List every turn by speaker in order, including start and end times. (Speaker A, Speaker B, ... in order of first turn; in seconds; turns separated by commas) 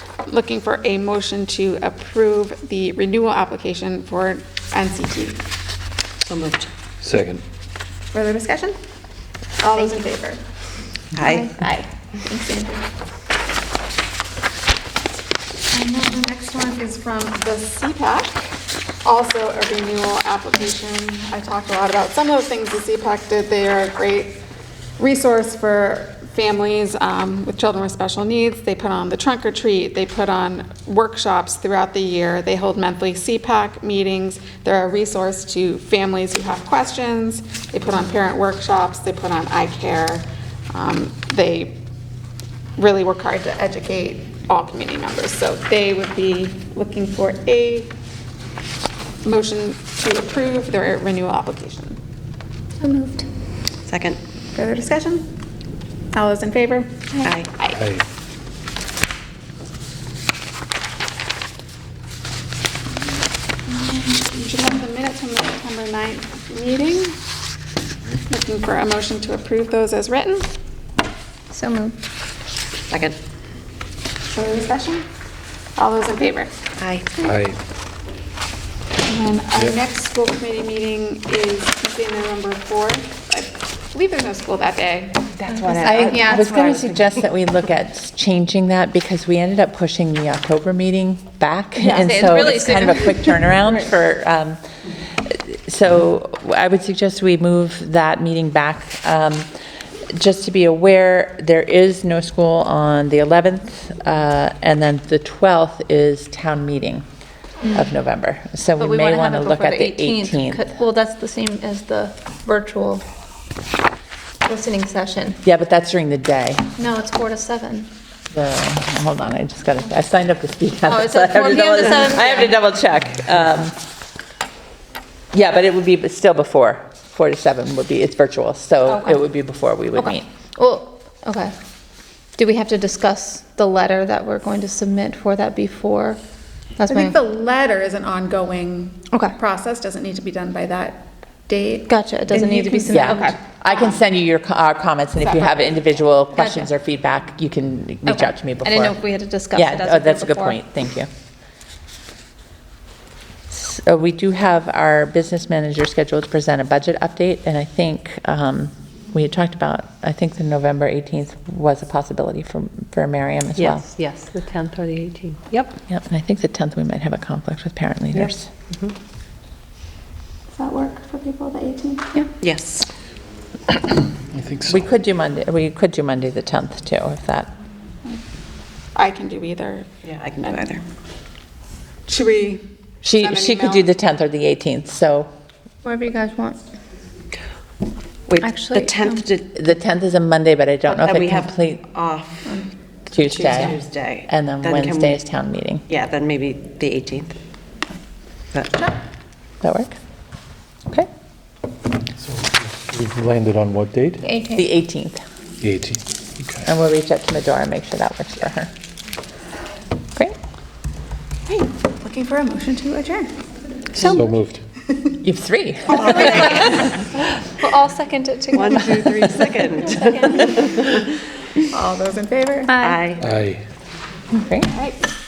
Speaker A: 0.3-5.4, Speaker B: 6.2-6.7, Speaker C: 7.0-7.4, Speaker A: 8.1-8.8, Speaker A: 9.6-10.4, Speaker B: 11.2-11.6, Speaker D: 11.2-11.6, Speaker A: 11.4-12.8, Speaker A: 15.7-24.4, Speaker A: 25.0-41.8, Speaker A: 42.8-48.0, Speaker A: 49.2-52.0, Speaker D: 52.8-53.3, Speaker B: 53.9-54.2, Speaker A: 54.5-55.3, Speaker A: 56.1-57.8, Speaker B: 57.2-57.5, Speaker C: 57.7-58.0, Speaker A: 63.7-67.2, Speaker A: 68.3-70.5, Speaker D: 71.5-72.0, Speaker B: 72.9-73.2, Speaker A: 74.3-75.1, Speaker A: 75.8-76.6, Speaker B: 76.8-77.2, Speaker C: 77.2-77.6, Speaker A: 79.1-85.3, Speaker B: 85.4-87.0, Speaker D: 85.5-86.4, Speaker E: 85.8-94.6, Speaker A: 86.3-86.7, Speaker D: 91.8-93.6, Speaker E: 95.2-99.5, Speaker E: 100.1-107.1, Speaker D: 107.6-107.9, Speaker E: 107.7-110.7, Speaker D: 108.8-113.0, Speaker D: 114.5-115.4, Speaker E: 115.4-116.7, Speaker D: 116.8-117.9, Speaker E: 118.3-123.8, Speaker D: 120.9-122.5, Speaker E: 125.3-130.3, Speaker D: 128.9-129.2, Speaker D: 129.9-131.6, Speaker D: 132.4-136.2, Speaker D: 136.8-137.2, Speaker A: 136.9-143.9, Speaker D: 141.9-143.3, Speaker E: 142.9-149.0, Speaker D: 146.3-146.7, Speaker D: 148.1-150.6, Speaker E: 149.5-151.1, Speaker E: 153.5-163.9, Speaker B: 163.6-165.7, Speaker E: 165.9-168.5, Speaker B: 168.2-168.9, Speaker A: 170.5-172.2, Speaker B: 172.4-172.9, Speaker C: 174.3-174.8, Speaker E: 174.7-177.5, Speaker A: 178.9-180.8, Speaker B: 180.1-180.8, Speaker A: 182.1-183.9, Speaker E: 183.0-185.3, Speaker D: 185.8-186.6, Speaker B: 188.3-189.5, Speaker D: 188.4-189.2, Speaker E: 189.5-191.8, Speaker B: 190.9-195.2, Speaker E: 193.1-195.8, Speaker B: 195.9-197.3, Speaker B: 198.5-198.9, Speaker E: 199.6-200.0, Speaker C: 202.2-204.2, Speaker D: 204.2-204.7, Speaker E: 204.5-205.2, Speaker C: 205.6-206.7, Speaker E: 206.7-208.7, Speaker A: 211.5-213.3, Speaker C: 214.0-214.6, Speaker E: 215.2-217.0, Speaker D: 215.9-220.8, Speaker B: 218.5-221.0, Speaker A: 221.7-222.8, Speaker D: 222.7-223.0, Speaker B: 222.8-223.2, Speaker C: 223.2-223.6, Speaker E: 224.3-224.7